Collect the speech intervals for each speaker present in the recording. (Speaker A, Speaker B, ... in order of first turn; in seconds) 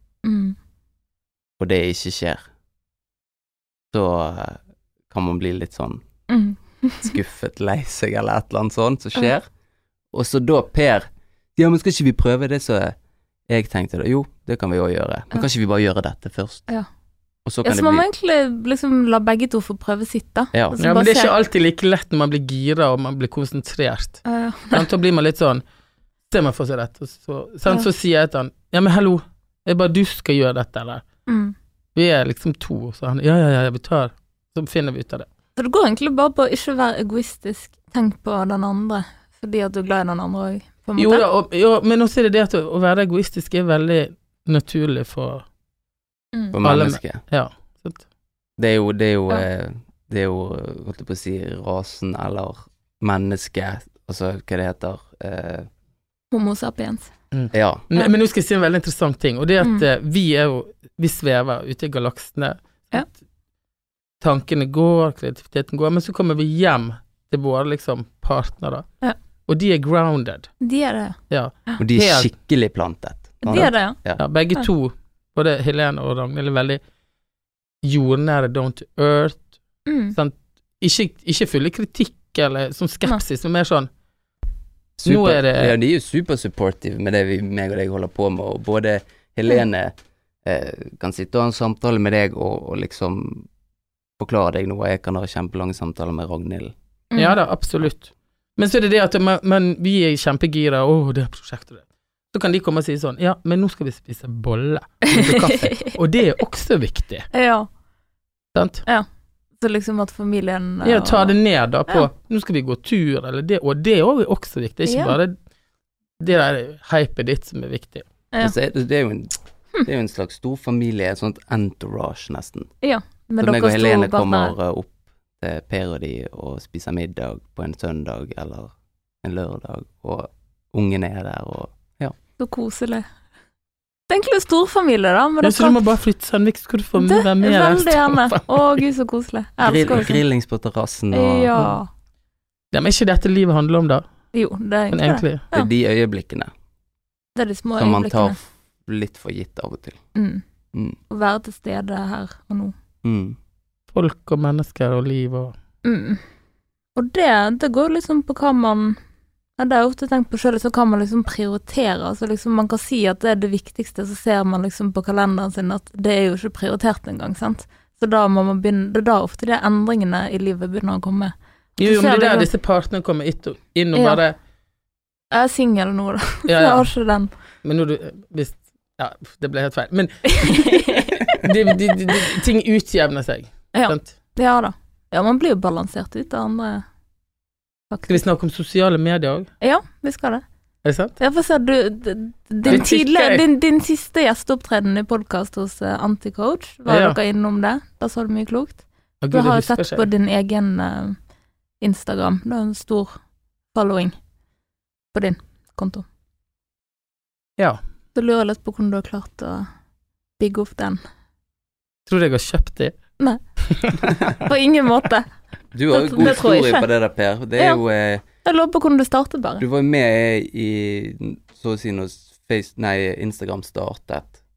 Speaker A: 0.2-0.6, 6.3-7.2, 17.6-21.3, 24.3-24.9, 31.3-31.6, 35.6-41.2, 56.3-57.1, 70.6-71.2, 73.4-74.0, 79.9-80.2, 105.1-105.9, 107.3-107.7, 109.6-111.4, 114.9-115.2, 122.8-124.5, 132.4-133.1, 134.1-135.8, 137.0-140.2, 141.1-141.9, 144.3-145.7, 147.3-148.4, 150.2-150.4, 151.1-152.7, 155.8-156.2, 157.0-159.0, 159.6-172.5, 173.9-174.2, 175.3-177.3, 180.3-181.4, 183.7-186.8, 187.9-188.2, 189.6-190.4, 191.2-201.2, 201.8-203.2, 203.7-204.2, 205.1-206.1, 208.2-209.7, 210.4-211.0, 214.1-215.3, 215.9-216.9, 218.4-219.6
Speaker B: 1.6-2.4, 3.9-6.0, 7.0-9.5, 10.1-12.9, 13.5-16.7, 17.4-18.1, 20.5-20.8, 46.5-47.2, 48.6-55.7, 57.5-57.9, 71.8-74.2, 85.0-89.9, 90.4-93.5, 94.2-96.7, 118.4-119.3, 119.8-122.7, 123.4-132.2, 139.6-141.6, 145.5-146.5, 147.8-150.0, 150.7-151.0, 153.0-153.4, 215.7-218.2, 219.6-224.4
Speaker C: 20.8-25.6, 26.3-31.0, 31.9-35.3, 41.0-45.5, 46.6-48.0, 57.3-63.1, 64.2-68.9, 69.5-70.5, 71.3-72.3, 73.5-76.8, 77.8-79.5, 80.1-83.9, 85.0-85.7, 97.2-107.3, 108.5-108.8, 110.8-115.3, 116.2-118.0, 135.4-138.8, 142.7-144.0, 144.9-145.4, 153.9-155.5, 171.8-174.3, 176.5-176.9, 177.6-184.1, 188.1-189.5, 190.8-191.2, 192.7-193.4, 196.9-197.2, 199.2-200.1, 212.1-212.9, 213.7-214.0